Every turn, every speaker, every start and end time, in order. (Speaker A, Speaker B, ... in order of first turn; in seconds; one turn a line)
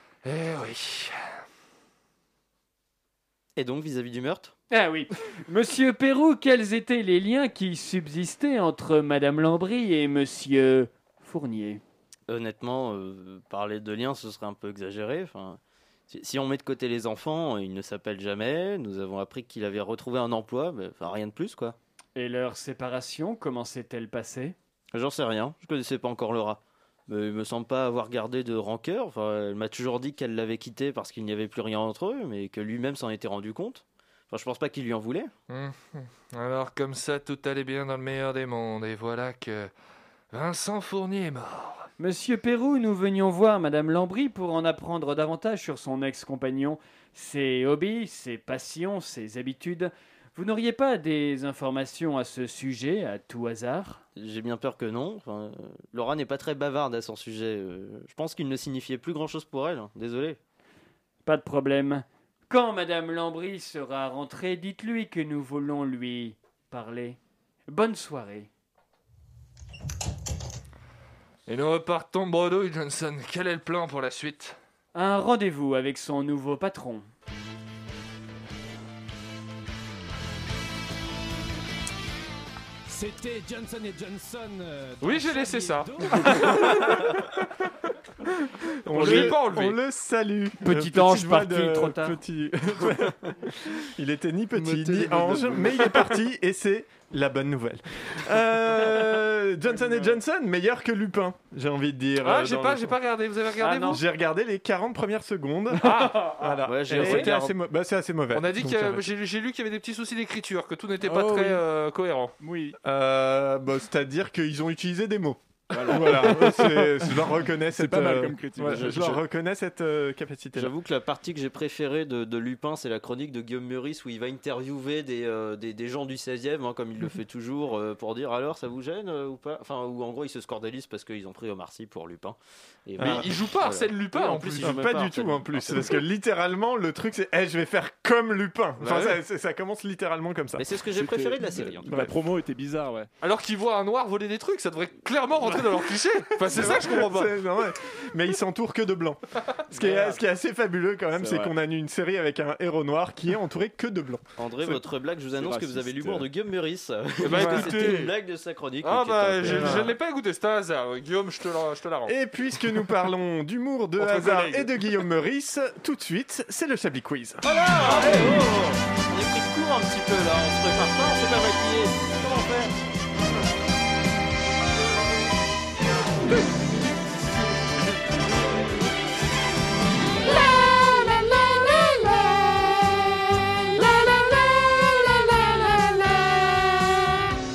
Speaker A: 0.2-1.2
Speaker B: 3.6-4.5
Speaker C: 4.7-11.8
Speaker B: 12.3-21.8
Speaker C: 22.2-24.6
Speaker B: 24.9-35.3
Speaker A: 35.5-39.7
Speaker A: 40.3-41.9
Speaker C: 42.0-54.0
Speaker B: 54.2-60.4
Speaker C: 61.2-68.5
Speaker A: 71.5-74.6
Speaker C: 74.9-77.1
Speaker D: 82.9-87.0
Speaker A: 85.0-86.6
Speaker E: 86.5-87.0
Speaker E: 88.8-103.0
Speaker A: 88.9-89.8
Speaker C: 88.9-89.4
Speaker C: 90.6-92.2
Speaker A: 102.2-104.0
Speaker C: 103.6-104.0
Speaker E: 103.9-109.0
Speaker A: 105.8-106.3
Speaker C: 105.9-106.3
Speaker B: 106.7-107.5
Speaker A: 108.3-112.3
Speaker F: 111.0-111.6
Speaker F: 112.4-112.7
Speaker E: 112.8-120.7
Speaker F: 115.7-119.2
Speaker B: 118.6-119.2
Speaker B: 120.5-136.0
Speaker E: 133.0-133.3
Speaker A: 133.0-134.8
Speaker E: 134.6-140.7
Speaker B: 140.6-141.9
Speaker F: 140.9-143.1
Speaker E: 141.9-142.1
Speaker A: 143.2-147.3
Speaker E: 146.5-154.8
Speaker F: 149.8-150.2
Speaker F: 151.2-151.5
Speaker B: 154.4-159.9
Speaker F: 155.3-156.3
Speaker A: 157.2-158.1
Speaker E: 157.3-157.7
Speaker A: 158.8-162.1
Speaker E: 159.4-159.9
Speaker E: 162.1-167.4
Speaker B: 167.4-172.7
Speaker A: 167.9-168.3